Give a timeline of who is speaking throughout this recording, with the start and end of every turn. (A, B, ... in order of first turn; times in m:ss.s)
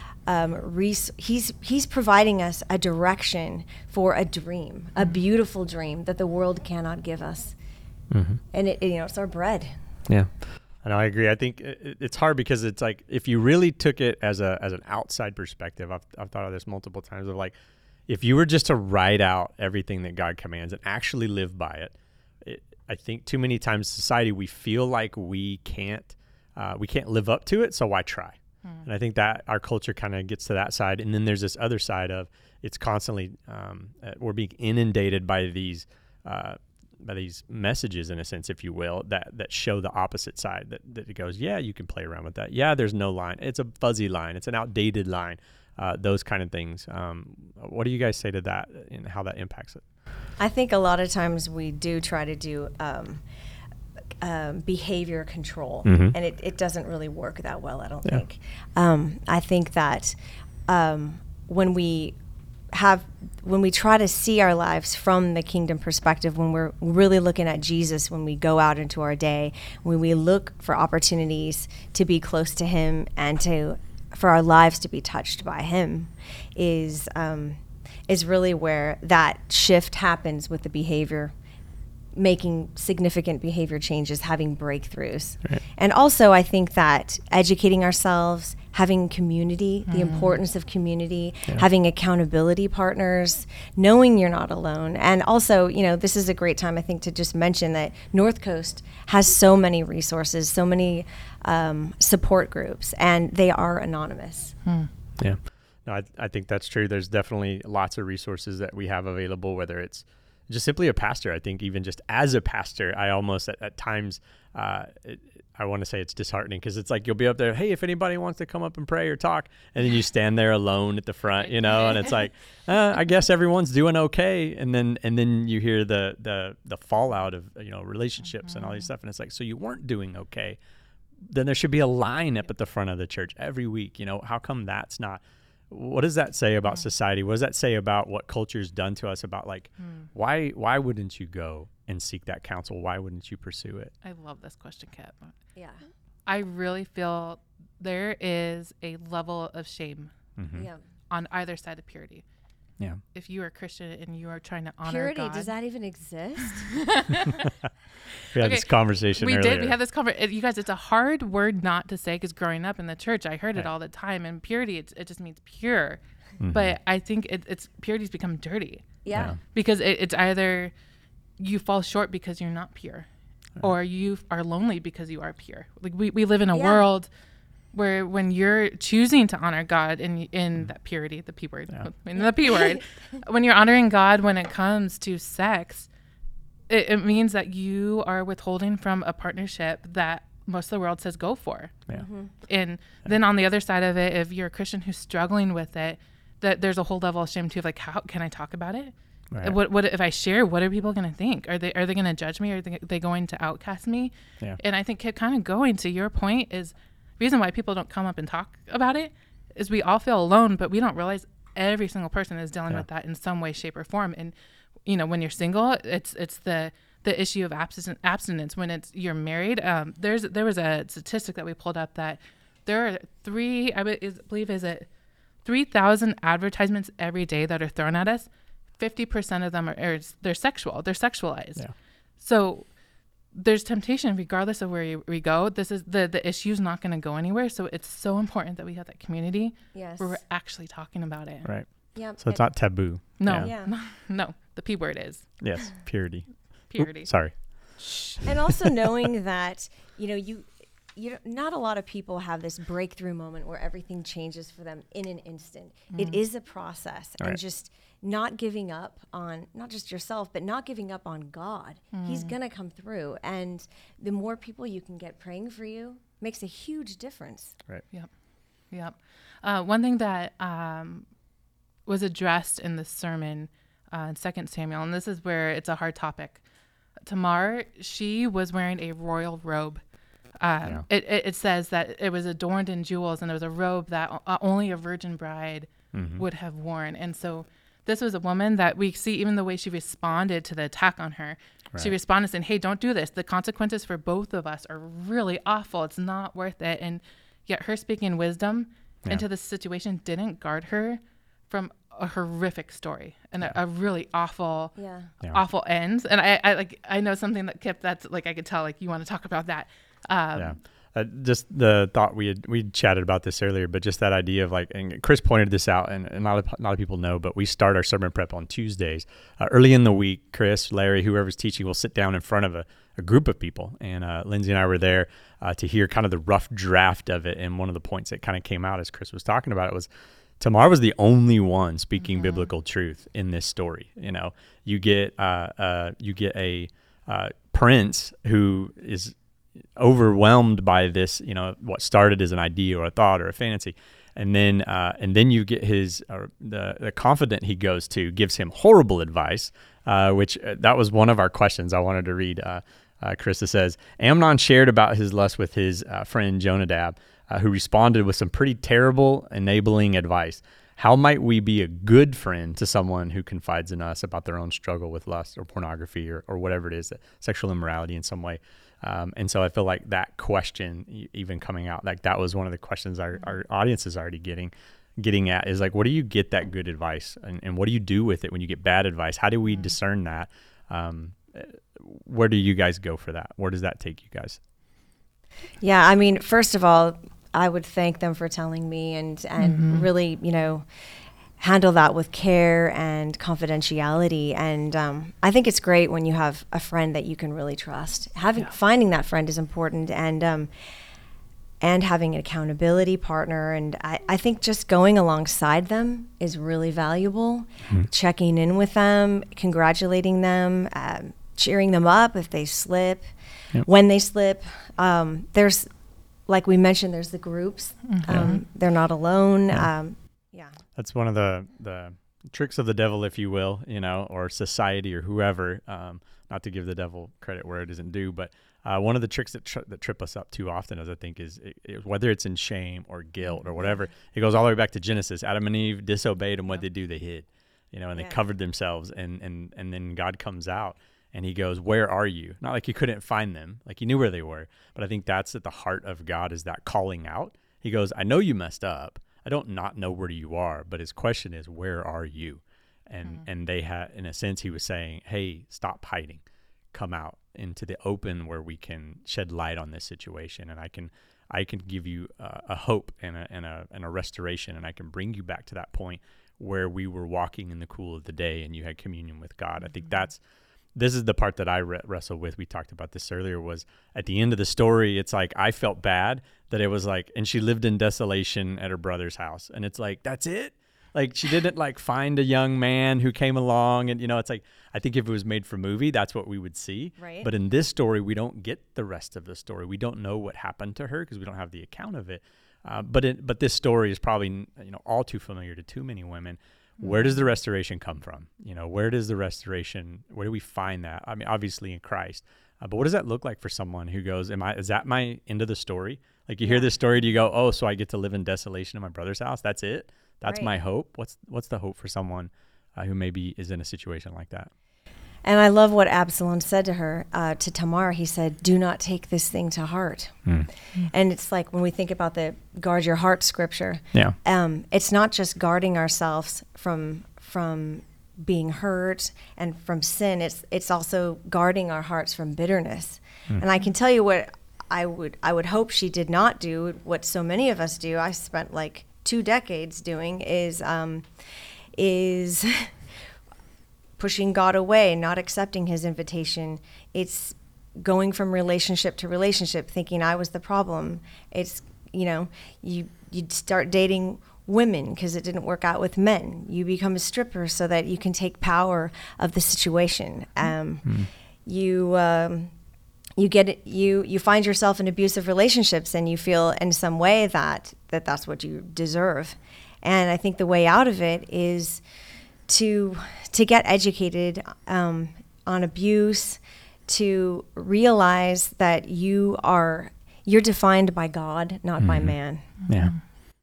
0:00.3-0:07.5 A
0:08.1-0:08.4 B
0:08.5-0:09.7 A
0:10.8-0:17.5 B
0:18.1-0:49.8 B
0:50.4-0:53.2 A
0:54.2-1:00.2 A
0:55.8-0:56.2 B
1:00.7-1:02.2 A
1:02.7-1:21.3 A
1:22.1-1:44.5 A
1:29.9-1:30.4 C
1:44.6-1:44.9 C
1:45.2-2:10.6 B
2:01.4-2:02.3 C
2:08.2-2:08.9 C
2:11.2-2:23.9 B
2:16.6-2:16.9 C
2:19.8-2:20.1 C
2:24.0-2:25.4 C
2:25.6-2:25.8 A
2:26.2-2:30.2 C
2:30.4-2:30.7 B
2:30.5-2:30.8 A
2:31.1-2:32.2 C
2:33.1-2:35.5 C
2:34.8-2:37.1 A
2:36.4-2:37.5 C
2:38.0-2:50.7 C
2:38.3-2:39.8 B
2:46.4-2:46.7 B
2:49.0-2:49.4 A
2:49.1-2:49.4 B
2:51.4-2:53.1 C
2:53.6-2:57.1 C
2:56.5-2:56.8 A
2:57.7-3:05.9 C
3:06.7-3:11.9 C
3:11.9-3:12.3 A
3:12.4-3:34.3 C
3:34.8-3:44.9 C
3:45.4-3:51.7 C
3:52.2-3:52.7 C
3:53.3-4:01.5 C
3:59.7-4:00.2 A
4:01.4-4:03.5 B
4:01.9-4:03.7 A
4:03.2-4:05.4 C
4:05.4-4:06.3 B
4:06.7-4:07.1 C
4:06.9-4:07.4 B
4:07.8-4:08.2 C
4:08.2-4:27.6 A
4:15.9-4:16.2 C
4:21.9-4:22.4 C
4:28.7-4:31.1 C
4:31.8-4:36.4 C
4:37.0-4:39.8 C
4:40.4-5:10.6 C
4:45.9-4:46.2 B
5:04.8-5:05.1 A
5:10.4-5:29.9 B
5:30.4-5:39.1 B
5:32.0-5:32.5 C
5:39.8-6:24.4 B
6:19.4-6:19.8 C
6:25.6-6:30.6 A
6:29.4-6:29.9 C
6:31.4-6:40.5 A
6:41.6-6:53.1 A
6:53.6-6:55.6 A
6:56.3-7:00.6 A
6:57.8-6:58.4 C
7:00.7-7:50.2 B
7:17.9-7:18.2 A
7:33.0-7:33.3 C
7:49.6-7:50.1 C
7:50.8-8:34.5 B
8:07.0-8:07.3 A
8:16.8-8:17.3 C
8:26.4-8:26.7 A
8:30.2-8:30.5 A
8:35.2-8:40.3 A
8:40.2-8:40.5 B
8:40.9-9:01.1 A
9:01.7-9:02.7 A
9:04.0-9:22.5 A
9:20.8-9:21.1 B
9:23.2-9:31.8 A
9:32.5-9:42.5 A
9:41.8-9:42.2 B
9:42.6-9:43.0 C
9:42.7-9:42.9 B